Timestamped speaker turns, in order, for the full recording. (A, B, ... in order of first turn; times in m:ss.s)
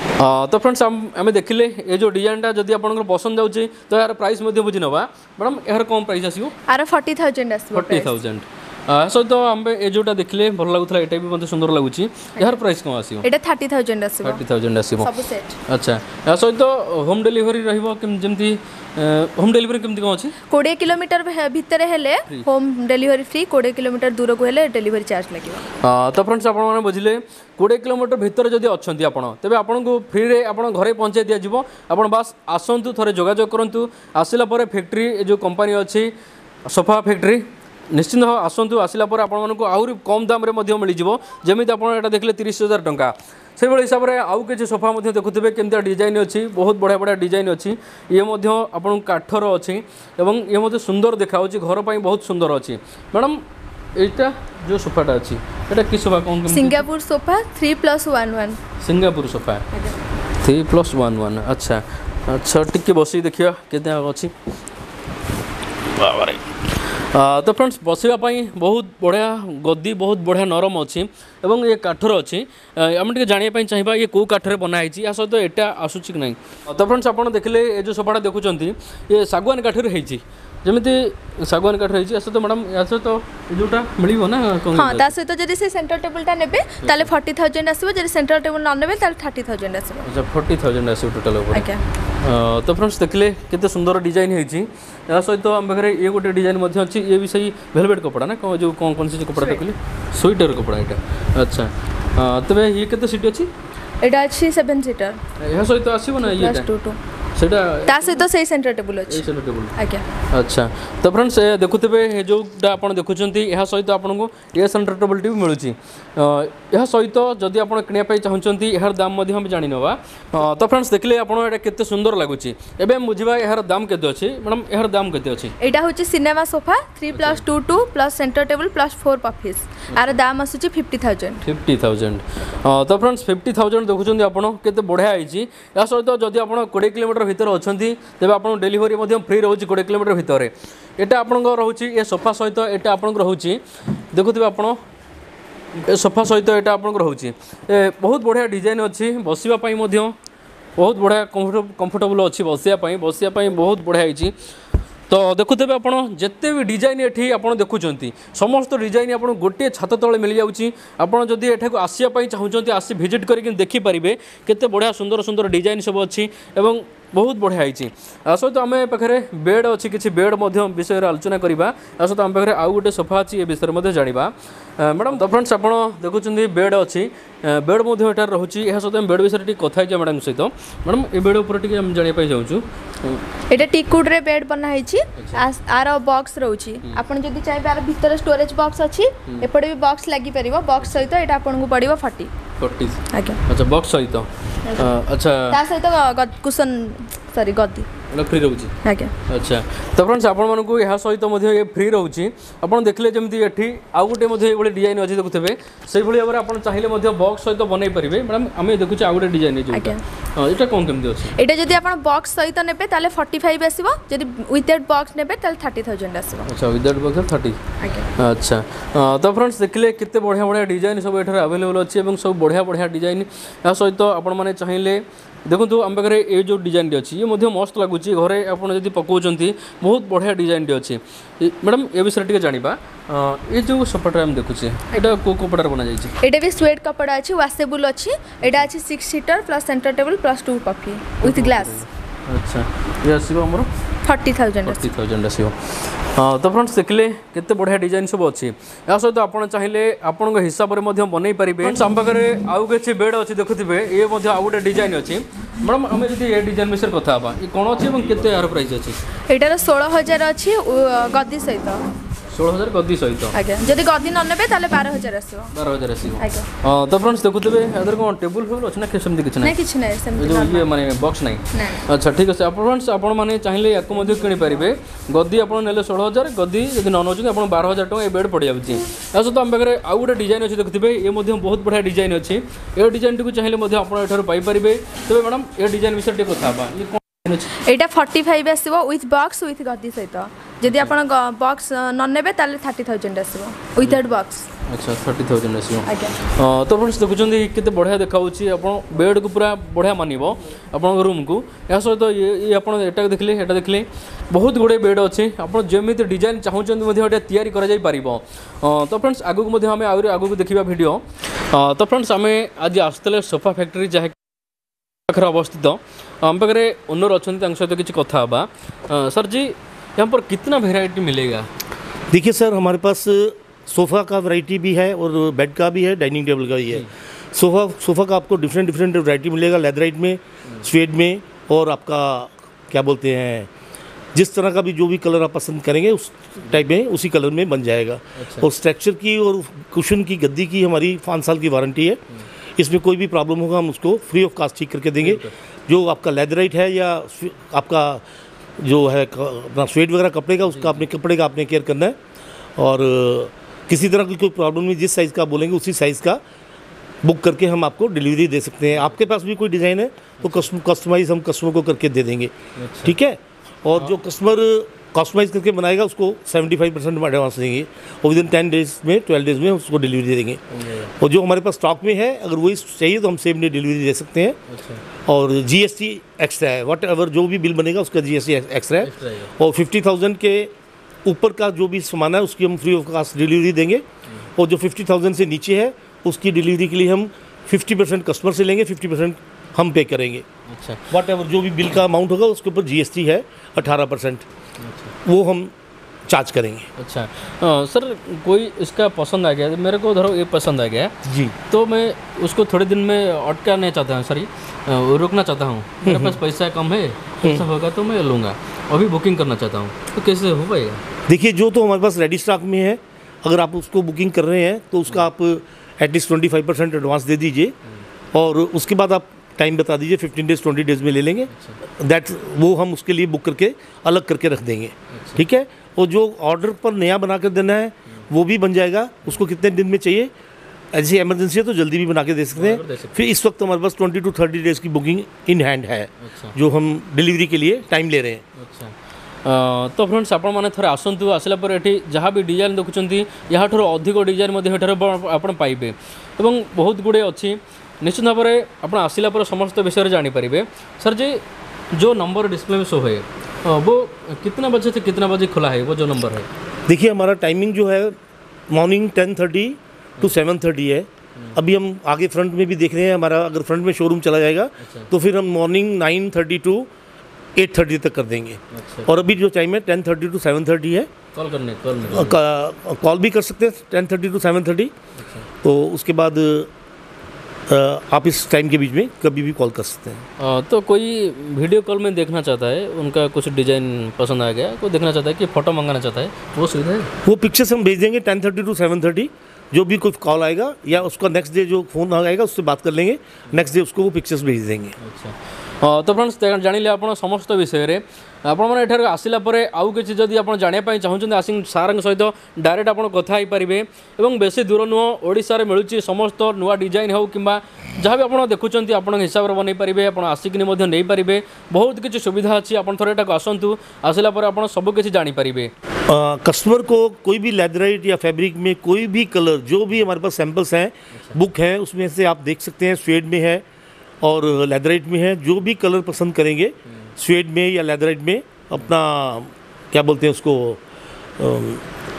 0:00.2-0:06.6 A
0:06.7-0:08.2 B
0:07.7-0:13.2 A
0:13.2-0:14.4 B
0:14.2-0:15.1 A
0:15.0-0:15.6 B
0:15.7-0:20.4 A
0:20.5-0:25.6 B
0:25.8-0:36.1 A
0:36.7-0:53.4 A
0:54.0-0:56.8 A
0:56.5-0:58.6 B
0:58.8-0:59.7 A
1:00.4-1:04.3 A
1:06.0-1:06.4 A
1:07.1-1:25.1 A
1:24.7-1:30.1 B
1:30.0-1:31.7 A
1:31.5-1:31.8 B
1:32.2-1:43.5 A
1:39.4-1:39.6 B
1:44.0-1:45.2 B
1:45.4-1:46.7 A
1:46.2-1:47.0 B
1:47.4-1:48.3 A
1:47.9-1:50.0 B
1:49.1-1:49.8 A
1:50.3-2:05.5 A
2:05.6-2:11.4 B
2:07.1-2:07.4 A
2:11.4-2:23.6 A
2:24.1-2:24.8 A
2:25.8-2:30.1 A
2:30.8-2:34.3 A
2:35.1-3:03.2 A
3:03.5-3:12.3 B
3:05.2-3:05.4 A
3:12.6-3:15.6 A
3:13.1-3:13.4 B
3:14.7-3:15.0 B
3:15.5-3:17.9 B
3:18.1-3:18.8 A
3:18.8-3:19.1 B
3:19.3-3:31.4 A
3:29.7-3:30.0 B
3:31.4-3:36.5 B
3:36.5-3:37.6 A
3:37.8-3:38.1 B
3:38.2-3:56.2 A
3:56.2-4:01.8 B
4:01.2-4:03.7 A
4:04.0-4:04.9 B
4:04.7-4:19.0 A
4:19.3-4:21.8 B
4:22.3-4:23.4 A
4:23.3-4:25.5 B
4:25.5-4:29.6 A
4:26.2-4:26.5 B
4:29.4-4:30.7 B
4:30.2-4:47.5 A
4:31.5-4:31.8 B
4:47.6-4:54.5 B
4:50.7-4:50.9 A
4:54.7-5:14.2 A
4:55.9-4:56.2 B
5:15.1-5:21.5 A
5:22.1-5:33.5 C
5:34.2-5:42.0 C
5:38.2-5:38.5 A
5:42.6-5:48.0 C
5:45.0-5:45.3 A
5:48.6-5:52.0 C
5:50.5-5:50.8 A
5:52.6-5:56.2 C
5:57.0-6:10.4 C
6:00.2-6:00.5 A
6:02.6-6:03.0 A
6:10.5-6:10.9 A
6:11.0-6:14.4 C
6:14.5-6:14.8 A
6:15.1-6:20.5 C
6:18.8-6:19.3 A
6:21.0-6:30.3 C
6:30.5-6:30.8 A
6:30.9-6:34.3 C
6:34.6-6:34.9 A
6:35.0-6:35.5 C
6:36.1-6:36.7 C
6:36.8-6:41.0 A
6:41.0-6:41.4 C
6:41.5-6:50.8 A
6:45.8-6:46.2 C
6:51.1-6:57.5 C
6:58.1-7:10.1 C
7:04.9-7:05.2 A
7:10.7-7:18.2 C
7:12.3-7:12.9 A
7:16.0-7:16.4 A
7:18.4-7:18.7 A
7:19.2-7:31.2 A
7:31.7-7:36.3 A
7:36.7-7:38.0 C
7:38.5-7:46.7 C
7:44.6-7:44.9 A
7:47.4-7:50.9 C
7:48.5-7:49.0 A
7:51.2-7:52.2 A
7:51.9-7:54.7 C
7:55.0-7:55.3 A
7:55.4-7:56.5 C
7:57.5-8:00.0 C
8:00.2-8:06.9 A
8:07.0-8:14.8 C
8:14.8-8:35.5 A
8:35.9-8:43.4 C
8:44.0-8:50.6 C
8:46.7-8:46.9 A
8:51.2-8:51.6 C